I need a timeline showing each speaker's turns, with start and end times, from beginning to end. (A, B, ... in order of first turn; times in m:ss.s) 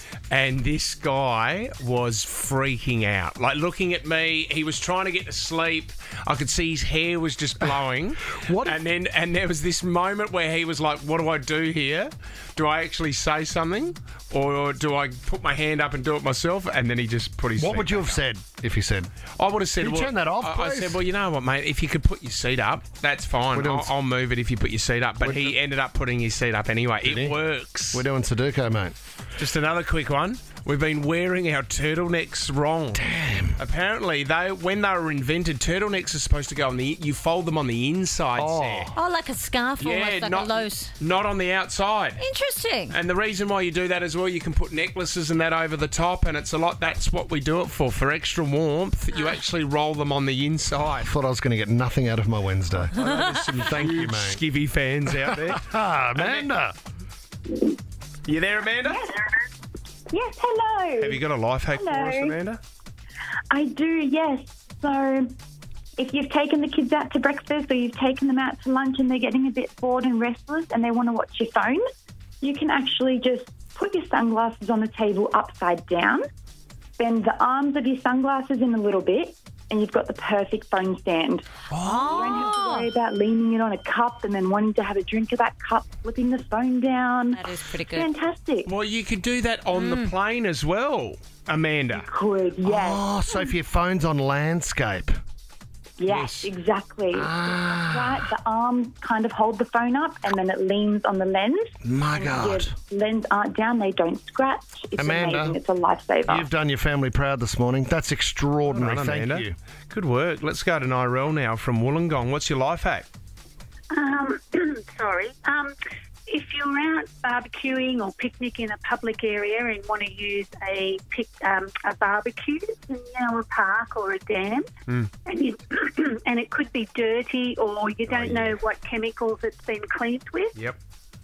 0:00.3-0:18.2 A
0:08.3-0:08.8 B
0:17.6-0:19.1 B
0:19.4-0:28.0 A
0:19.8-0:21.0 B
0:23.5-0:23.9 B
0:25.2-0:25.5 B
0:27.0-0:27.4 B
0:27.9-0:28.9 B
0:29.4-0:33.0 A
0:32.9-0:33.6 B
0:33.6-0:38.9 A
0:38.4-0:38.9 B
0:39.0-0:40.9 C
0:39.8-0:42.2 A
0:42.2-0:42.9 C
0:42.9-0:51.1 A
0:51.0-0:54.4 B
0:52.9-0:56.4 A
0:55.2-0:56.7 B
0:58.2-0:59.0 A
0:58.9-0:59.5 D
1:00.1-1:02.3 D
1:01.0-1:02.6 A
1:03.5-1:05.3 D
1:06.0-1:11.8 D
1:12.4-1:16.2 D
1:17.0-1:27.4 D
1:21.7-1:22.6 A
1:21.8-1:22.9 C
1:27.3-1:28.1 C
1:27.9-1:28.7 D
1:28.6-1:32.1 A
1:29.7-1:30.1 C
1:31.9-1:33.0 D
1:32.6-1:35.1 B
1:36.0-1:46.5 D
1:36.1-1:36.5 A
1:37.1-1:38.2 B
1:41.8-1:42.7 B
1:45.0-1:45.6 B
1:46.3-1:49.5 B
1:48.7-1:53.1 A
1:53.9-1:55.7 E
1:56.3-2:04.6 E
2:05.2-2:10.6 E
2:08.1-2:08.6 B